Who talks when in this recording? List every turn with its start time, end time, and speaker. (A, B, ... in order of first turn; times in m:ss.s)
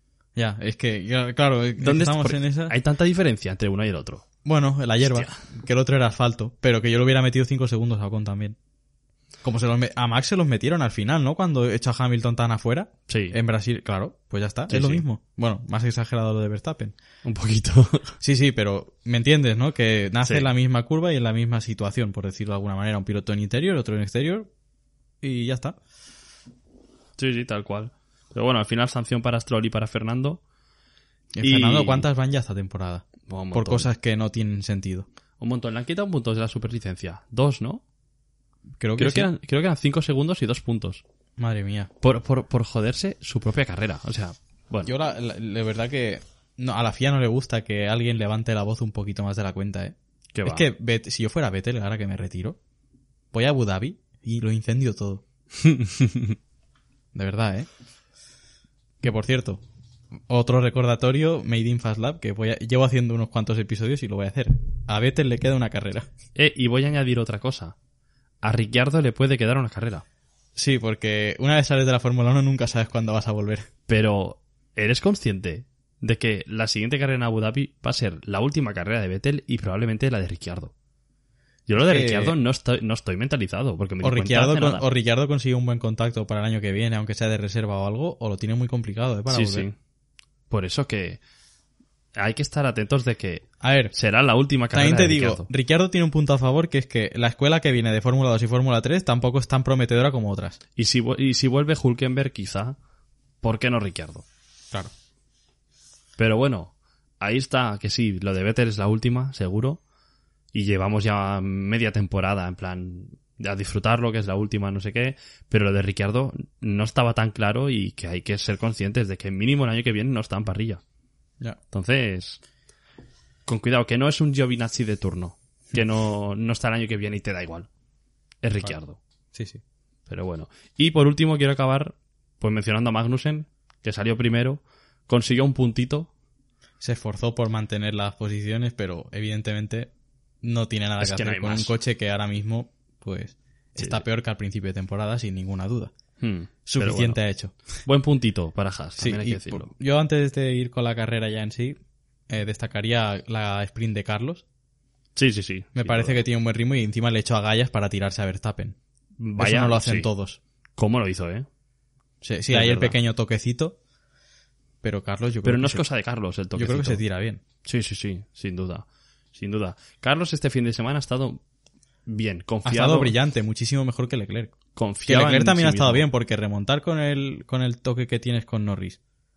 0:00.4-0:02.8 A
0:01.8-0:04.2 B
0:04.4-0:08.6 A
0:05.0-0:05.4 B
0:09.4-0:17.0 A
0:13.1-0:13.4 B
0:14.7-0:15.0 B
0:17.2-0:18.1 B
0:18.2-0:24.5 A
0:25.2-0:25.8 A
0:27.2-0:30.4 B
0:31.3-0:35.1 A
0:31.4-0:32.0 B
0:33.3-0:33.9 B
0:35.4-0:37.8 B
0:38.8-0:39.3 A
0:39.0-0:41.0 B
0:41.4-0:41.9 A
0:42.0-0:44.9 B
0:44.8-0:52.6 A
0:50.3-0:50.6 B
0:53.3-0:55.2 A
0:55.6-0:56.3 B
0:57.1-0:57.7 A
0:59.0-0:59.6 A
1:00.3-1:06.1 A
1:06.4-1:07.8 B
1:08.4-1:10.0 B
1:10.6-1:13.7 A
1:13.9-1:20.7 B
1:21.7-1:24.8 B
1:21.8-1:22.4 A
1:24.0-1:29.7 A
1:29.3-1:29.7 B
1:30.5-1:31.2 B
1:32.1-1:35.5 B
1:33.6-1:33.9 A
1:34.7-1:40.6 A
1:40.8-1:42.8 B
1:43.4-1:44.2 B
1:46.2-1:49.8 B
1:50.5-2:00.8 B
2:01.7-2:02.4 B
2:03.4-2:07.7 B
2:08.4-2:09.0 B
2:09.3-2:09.6 A
2:10.1-2:16.1 B
2:16.8-2:19.9 A
2:20.4-2:25.9 A
2:21.0-2:21.7 B
2:23.8-2:24.0 B
2:26.2-2:27.2 B
2:26.6-2:27.5 A
2:27.8-2:29.7 B
2:29.0-2:31.8 A
2:32.3-2:34.4 A
2:35.2-2:36.2 B
2:35.8-2:38.8 A
2:39.2-2:40.1 B
2:39.4-2:40.4 A
2:40.8-2:41.5 B
2:42.2-2:43.8 A
2:42.5-2:43.0 B
2:44.8-2:45.8 A
2:45.4-2:47.0 B
2:46.5-2:47.4 A
2:47.6-2:51.4 B
2:52.0-2:53.1 B
2:52.6-2:59.0 A
2:54.8-2:56.0 B